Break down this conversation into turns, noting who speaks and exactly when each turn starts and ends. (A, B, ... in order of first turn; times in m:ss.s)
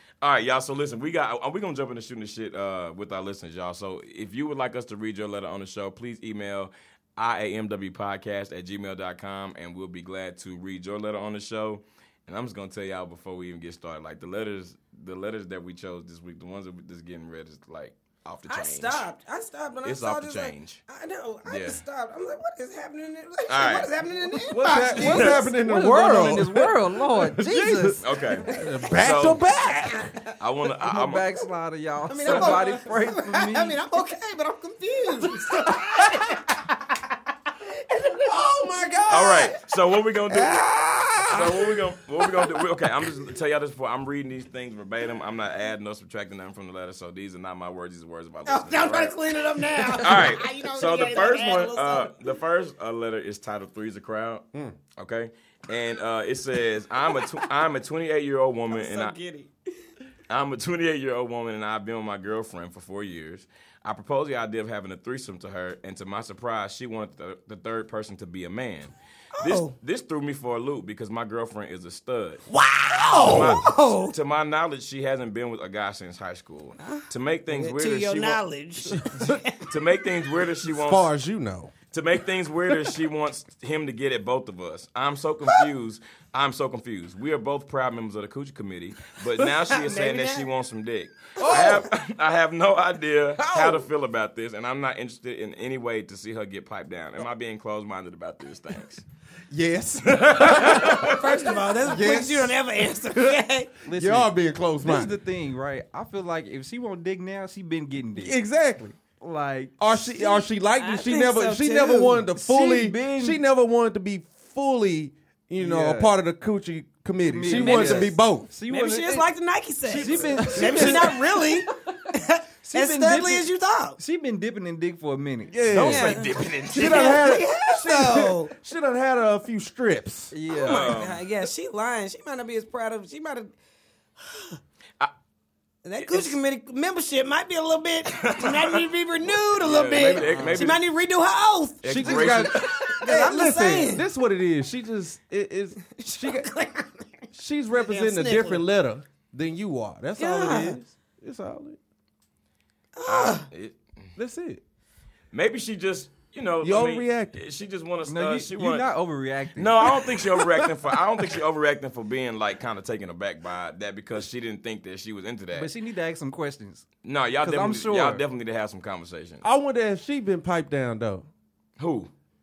0:00.2-0:19.1 A
0:18.5-0:25.6 B
0:19.8-0:20.8 A
0:21.5-0:21.8 A
0:23.5-0:23.9 A
0:24.4-0:30.0 C
0:25.0-0:28.0 D
0:28.0-0:29.4 A
0:28.5-0:30.3 B
0:30.4-0:31.3 A
0:30.9-0:33.8 D
0:32.1-0:36.7 B
0:32.3-0:32.6 C
0:35.5-0:36.4 C
0:37.9-0:39.6 B
0:38.2-0:39.5 C
0:39.1-0:40.7 A
0:40.3-0:41.5 C
0:41.2-0:59.1 A
0:48.5-0:52.3 B
0:58.7-0:59.5 B
1:00.3-1:12.4 A
1:09.4-1:09.8 B
1:12.5-1:14.2 B
1:13.2-1:13.7 C
1:13.2-1:18.4 A
1:16.8-1:19.8 B
1:19.1-1:19.4 C
1:19.7-1:21.1 A
1:20.6-1:21.7 C
1:21.9-1:39.0 A
1:29.6-1:30.5 B
1:31.4-1:31.9 C
1:33.5-1:33.8 D
1:39.5-1:45.2 C
1:40.1-1:41.2 A
1:40.6-1:43.7 B
1:43.9-1:44.3 D
1:44.8-1:48.4 D
1:48.2-1:58.5 C
1:50.0-1:52.3 B
1:52.4-1:53.4 D
1:55.6-1:56.1 D
1:57.3-1:59.3 D
1:57.5-1:58.2 B
1:58.7-2:04.0 B
1:59.9-2:01.6 D
2:00.5-2:01.1 C
2:02.6-2:03.5 D
2:04.0-2:05.6 D
2:05.5-2:10.3 C
2:05.7-2:07.2 A
2:05.8-2:08.5 B
2:10.3-2:11.0 D
2:10.6-2:11.2 A
2:10.7-2:13.5 B
2:14.2-2:14.6 B
2:15.8-2:21.8 B
2:16.1-2:16.4 A
2:18.1-2:18.8 A
2:19.6-2:20.8 A
2:20.0-2:20.7 C
2:21.8-2:23.0 A
2:21.8-2:26.5 C
2:22.0-2:22.5 D
2:22.6-2:24.0 B
2:25.9-2:27.1 B
2:27.3-2:31.8 C
2:27.7-2:28.6 B
2:30.2-2:30.8 B
2:33.0-2:33.5 B
2:33.1-2:33.8 A
2:34.2-2:34.6 C
2:35.3-2:38.9 A
2:36.6-2:37.4 C
2:38.1-2:39.9 D
2:39.6-2:45.7 A
2:45.5-2:46.9 D
2:47.0-2:49.4 A
2:47.4-2:48.2 D
2:49.4-2:51.3 C
2:51.8-2:52.1 A